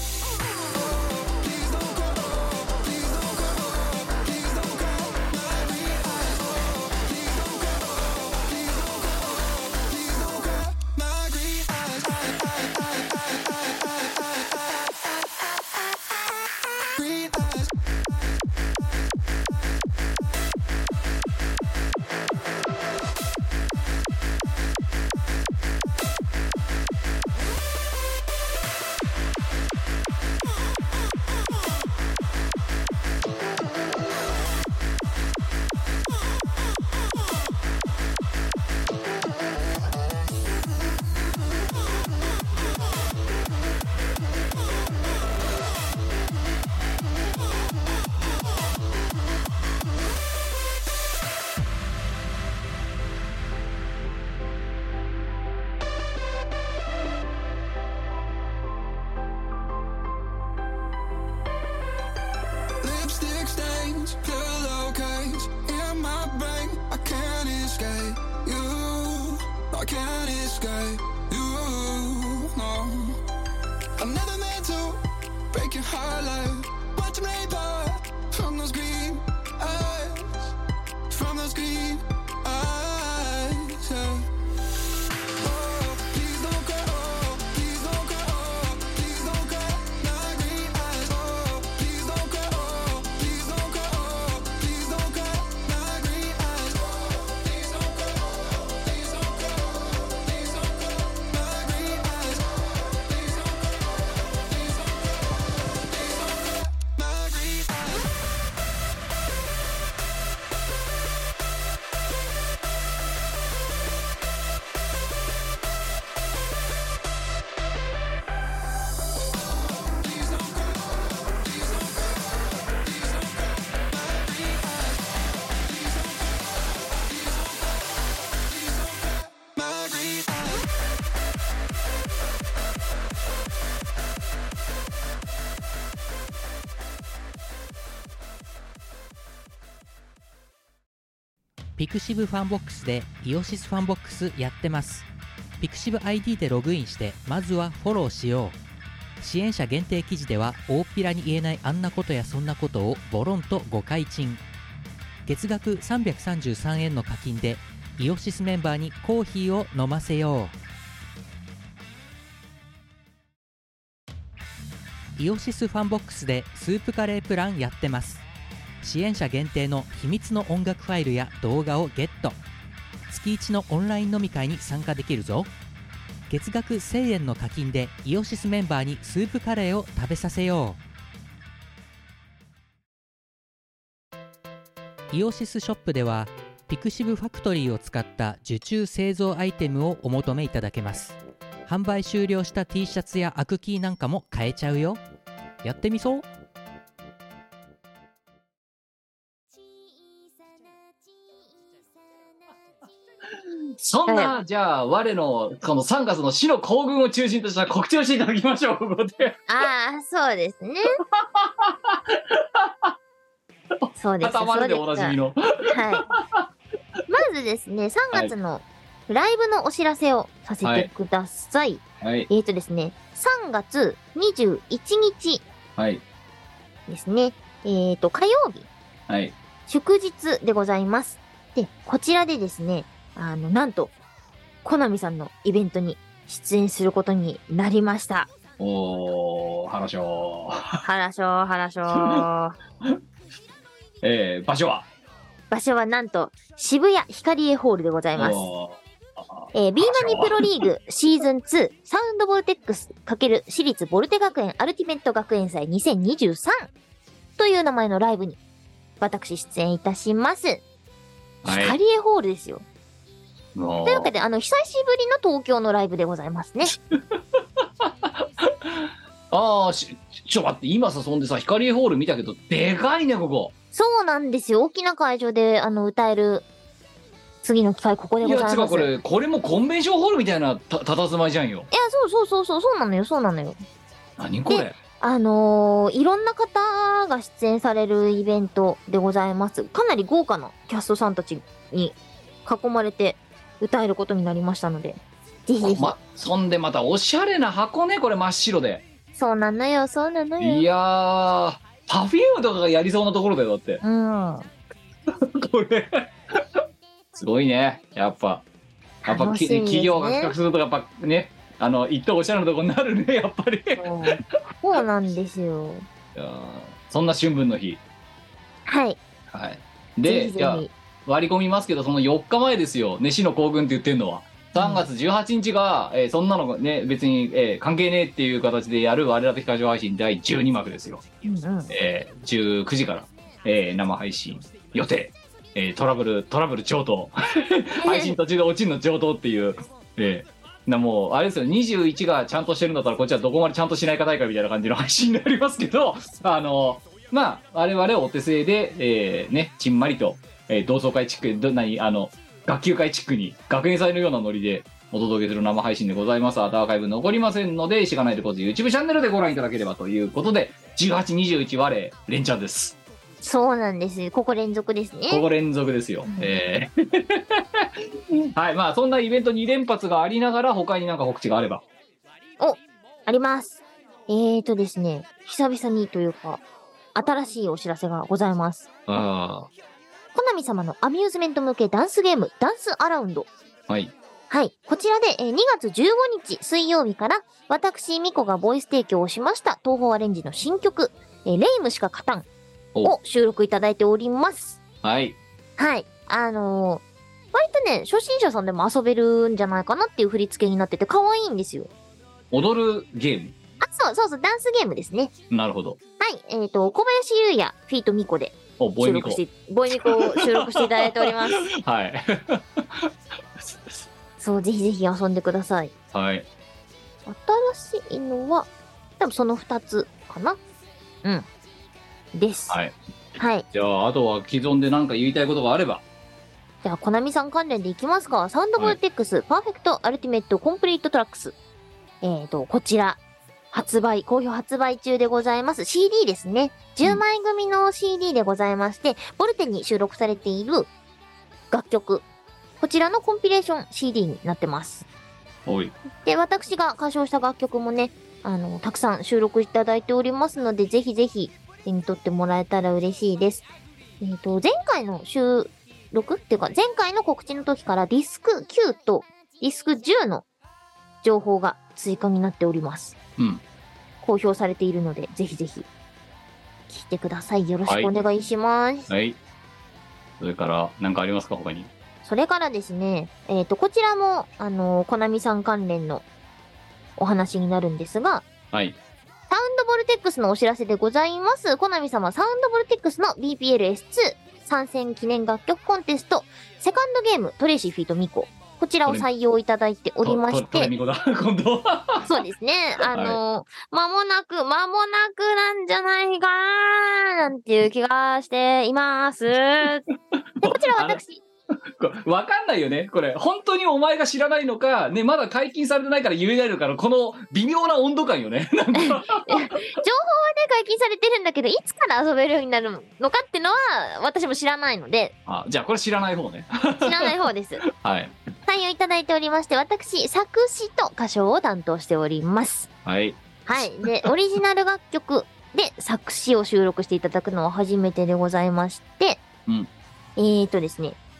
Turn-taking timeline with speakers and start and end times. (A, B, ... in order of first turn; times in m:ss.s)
0:00.8-0:14.8 A
0:16.8-0:17.7 A
1:02.8-1:13.2 A
1:14.0-1:20.5 A
1:21.1-1:24.3 A
1:25.4-1:43.7 A
1:44.5-1:44.8 A
1:46.0-1:48.0 A
2:00.0-2:00.9 A
2:01.5-2:01.9 A
2:02.9-2:06.4 A
2:07.1-2:07.4 A
2:08.5-2:10.7 A
2:21.8-2:25.1 B
2:25.6-2:28.6 B
2:29.2-2:34.4 B
2:35.2-2:40.5 B
2:45.2-2:48.2 B
2:48.8-2:52.4 B
2:53.1-2:55.5 B
2:56.3-3:00.8 B
3:05.1-3:15.0 B
3:15.6-3:16.2 B
3:23.7-3:29.4 C
3:24.1-3:24.3 D
3:29.5-3:31.0 D
3:31.1-3:32.9 C
3:33.8-3:36.4 C
3:34.0-3:35.1 D
3:35.7-3:36.1 D
3:37.1-3:45.4 D
3:40.6-3:40.9 C
3:42.0-3:42.3 C
3:45.8-3:46.0 C
3:46.9-3:48.7 D
3:49.1-3:49.4 C
3:49.7-3:53.9 D
3:54.6-3:58.3 D
3:58.6-4:00.8 C
4:00.8-4:02.5 D
4:01.9-4:02.3 C
4:04.0-4:04.8 C
4:05.5-4:08.4 D
4:08.1-4:10.6 C
4:09.5-4:16.7 D
4:17.4-4:18.4 D
4:19.0-4:20.6 D
4:21.4-4:21.8 C
4:21.4-4:22.6 D
4:23.5-4:24.1 C
4:23.8-4:26.8 D
4:26.7-4:33.5 C
4:33.7-4:36.4 D
4:37.4-4:38.9 D
4:38.2-4:41.7 C
4:41.7-4:43.6 D
4:44.2-4:44.8 C
4:44.5-4:56.0 D
4:55.6-4:58.8 C
4:59.1-5:00.6 D
5:00.4-5:03.8 C
5:03.8-5:04.5 D
5:05.1-5:06.6 C
5:07.1-5:08.4 C
5:09.0-5:10.3 D
5:09.1-5:13.9 C
5:13.8-5:15.9 D
5:16.1-5:17.8 C
5:18.6-5:19.0 D
5:19.3-5:31.0 C
5:20.0-5:20.7 D
5:24.6-5:24.8 D
5:31.2-5:31.7 D
5:31.7-6:02.8 C
5:37.8-5:38.2 D
6:03.2-6:05.2 D
6:05.1-6:11.6 C
6:06.1-6:06.3 D
6:12.4-6:16.4 D
6:16.9-6:18.7 D
6:18.9-6:19.5 C
6:20.1-6:23.3 D
6:23.7-6:23.9 C
6:24.3-6:32.2 D
6:32.8-6:34.6 D
6:34.8-6:35.2 C
6:35.6-6:41.7 D
6:42.3-6:43.3 C
6:43.6-6:45.1 D
6:45.3-6:45.8 C
6:46.0-6:51.4 D
6:48.6-6:49.2 C
6:49.7-6:53.8 C
6:54.2-6:55.7 D
6:55.9-6:56.2 C
6:57.0-6:58.5 D
6:59.0-7:00.4 D
7:02.1-7:02.6 D
7:02.5-7:02.7 C
7:03.2-7:03.4 D
7:03.5-7:05.8 C
7:06.6-7:11.4 D
7:12.0-7:13.0 D
7:13.5-7:20.7 D
7:21.5-7:22.0 D
7:22.6-7:24.8 D
7:25.4-7:25.7 C
7:26.0-7:33.4 D
7:34.0-7:40.2 D
7:41.0-7:42.9 D
7:43.2-7:43.4 C
7:44.0-7:45.7 D
7:46.7-7:48.9 D
7:47.6-7:47.9 C
7:48.9-7:49.2 C
7:50.2-7:51.7 C
7:52.0-7:56.0 D
7:57.0-7:58.3 D
7:58.5-7:58.8 C
7:59.3-8:10.7 D
8:10.0-8:12.1 C
8:12.0-8:19.8 D
8:12.9-8:13.2 C
8:20.1-8:21.0 C
8:20.4-8:21.2 D
8:21.7-8:29.5 C
8:28.7-8:35.1 D
8:35.2-8:38.1 C
8:36.8-8:37.6 D
8:38.4-8:42.7 D
8:42.8-8:44.1 C
8:43.4-8:49.2 D
8:50.2-8:51.0 D